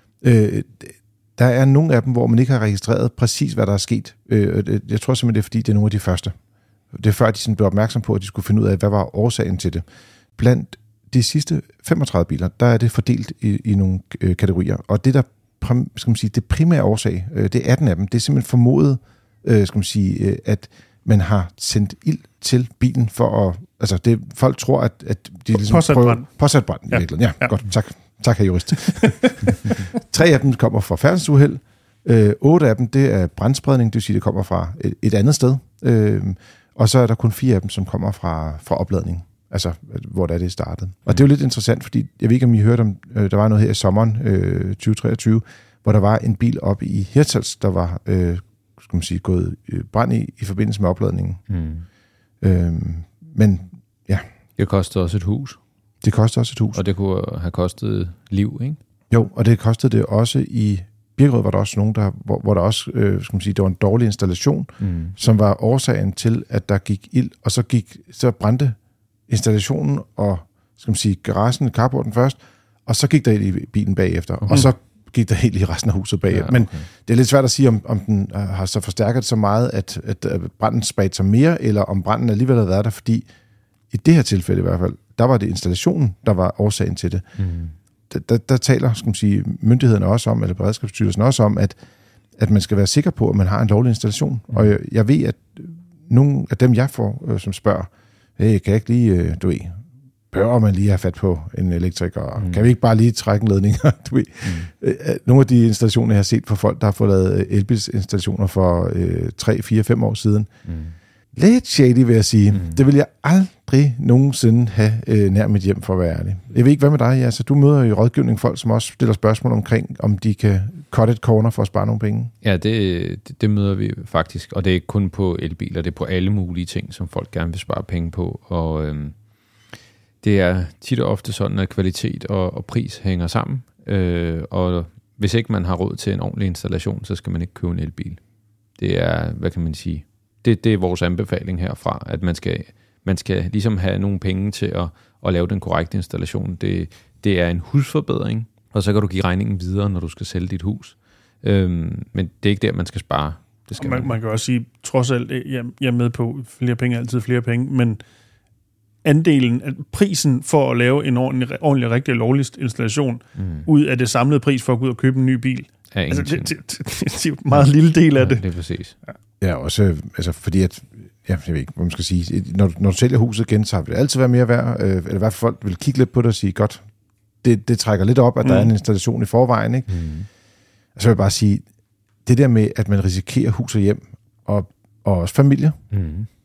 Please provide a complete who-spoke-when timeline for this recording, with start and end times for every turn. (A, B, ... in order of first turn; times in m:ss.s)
0:00.2-0:06.3 A
0:06.9-0:09.8 A
0:10.4-0:51.4 A
0:25.5-0:26.3 B
0:26.9-0:27.6 B
0:29.0-0:29.7 B
0:51.5-0:51.9 C
0:52.4-0:54.2 A
0:54.6-0:55.6 C
0:56.0-0:56.8 A
0:56.7-0:58.8 C
0:59.1-1:08.8 A
1:04.8-1:05.2 C
1:09.3-1:23.3 A
1:16.3-1:16.9 C
1:23.9-1:27.2 A
1:27.4-1:27.7 C
1:28.1-1:31.8 A
1:32.4-1:39.8 A
1:40.3-1:50.5 A
1:44.4-1:44.7 C
1:50.7-1:51.0 C
1:51.4-2:02.3 A
1:52.5-1:52.8 C
2:02.4-2:09.2 C
2:10.2-2:18.2 C
2:18.8-2:34.2 C
2:33.8-2:38.0 B
2:39.0-2:48.4 B
2:43.4-2:43.7 C
2:45.9-2:46.5 C
2:47.5-2:49.0 C
2:49.4-2:56.8 A
2:57.4-2:59.9 A
2:58.4-2:58.7 B
2:59.9-3:00.3 C
3:01.0-3:01.6 A
3:02.3-3:05.8 A
3:05.9-3:06.3 C